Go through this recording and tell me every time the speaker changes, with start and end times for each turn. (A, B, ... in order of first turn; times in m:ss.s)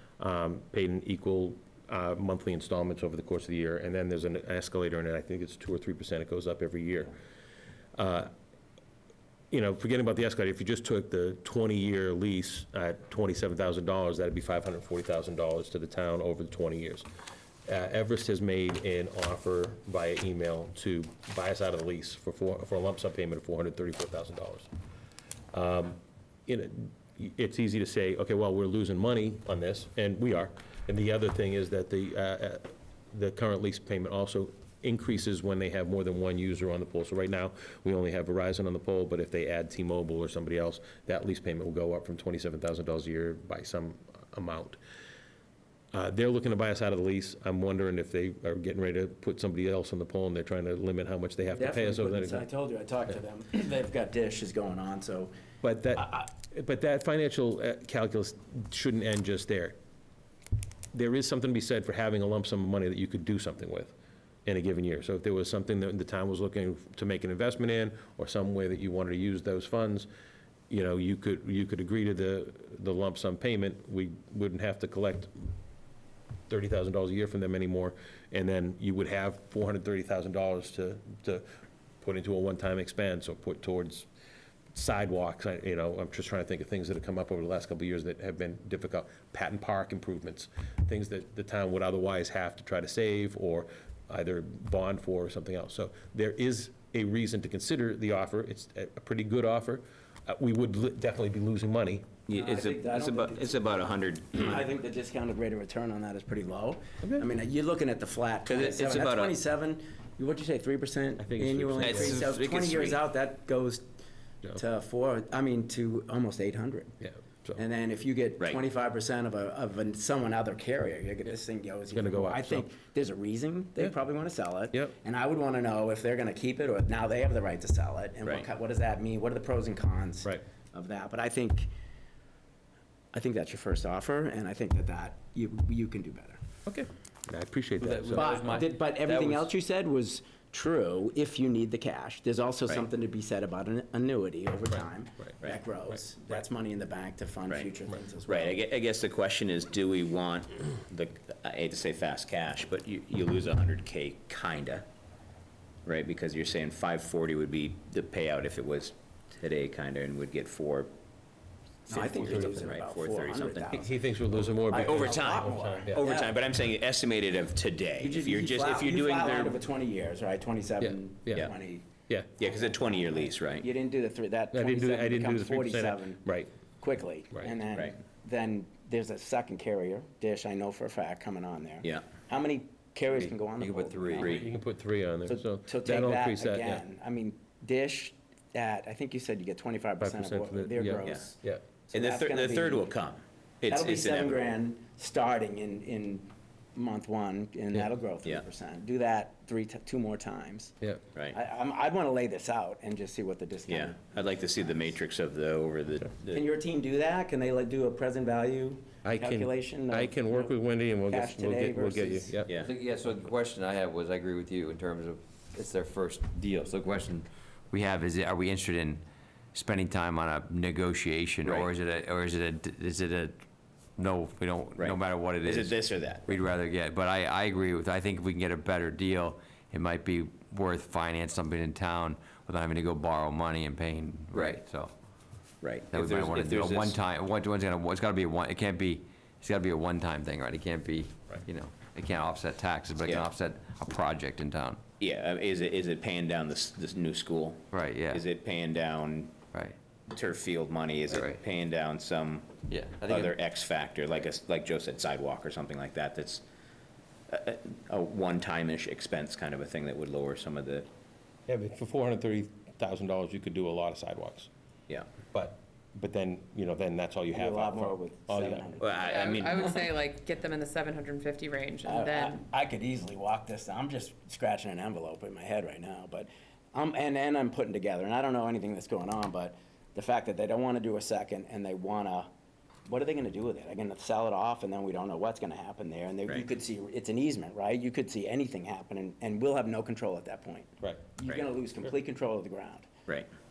0:00.2-0:07.2 A
0:08.0-0:08.3 A
0:09.5-0:17.1 A
0:17.7-0:24.7 A
0:25.5-0:44.8 A
0:45.9-0:52.4 A
0:51.5-0:55.3 B
0:55.6-0:59.8 A
1:00.9-1:03.9 A
1:04.5-1:10.1 A
1:10.7-1:15.5 A
1:16.5-1:21.4 A
1:22.0-1:24.1 A
1:24.7-1:42.1 A
1:42.3-1:44.6 C
1:42.3-1:43.5 B
1:44.4-1:53.9 B
1:48.5-1:49.4 C
1:51.2-1:52.2 A
1:51.8-1:53.0 C
1:54.5-1:57.0 B
1:57.0-1:57.6 A
1:57.6-2:11.7 B
2:01.9-2:02.7 A
2:13.1-2:16.4 B
2:16.7-2:18.6 A
2:17.8-2:19.5 D
2:18.1-2:28.6 B
2:28.3-2:34.9 C
2:35.8-2:40.9 C
2:41.9-2:44.0 B
2:42.0-2:42.7 A
2:42.0-2:43.8 C
2:43.7-2:46.0 A
2:44.6-2:46.3 B
2:44.7-2:49.6 C
2:48.0-2:51.9 B
2:50.8-2:51.5 A
2:52.4-2:53.7 C
2:53.6-2:56.2 B
2:54.5-2:56.5 A
2:56.8-3:04.5 B
3:03.2-3:04.4 D
3:04.2-3:04.5 C
3:04.3-3:06.8 A
3:05.3-3:12.9 B
3:10.0-3:11.6 A
3:11.9-3:14.4 C
3:13.7-3:20.8 B
3:21.3-3:24.0 B
3:23.7-3:26.4 C
3:26.3-3:30.6 B
3:29.0-3:32.5 A
3:31.1-3:32.4 B
3:32.6-3:39.0 D
3:39.5-3:43.4 D
3:41.4-3:41.7 C
3:44.0-3:54.9 D
3:44.8-3:46.4 C
3:54.3-3:54.6 C
3:55.6-3:57.0 C
3:55.9-4:04.8 D
4:03.0-4:03.3 C
4:05.0-4:09.4 C
4:07.7-4:08.2 D
4:10.1-4:16.4 C
4:11.1-4:11.4 D
4:12.7-4:13.3 D
4:17.3-4:20.9 C
4:21.5-4:24.5 A
4:25.3-4:28.7 A
4:27.3-4:29.4 B
4:28.8-4:29.8 C
4:29.1-4:32.4 E
4:31.9-4:42.3 B
4:42.9-4:52.9 B
4:50.8-4:51.1 A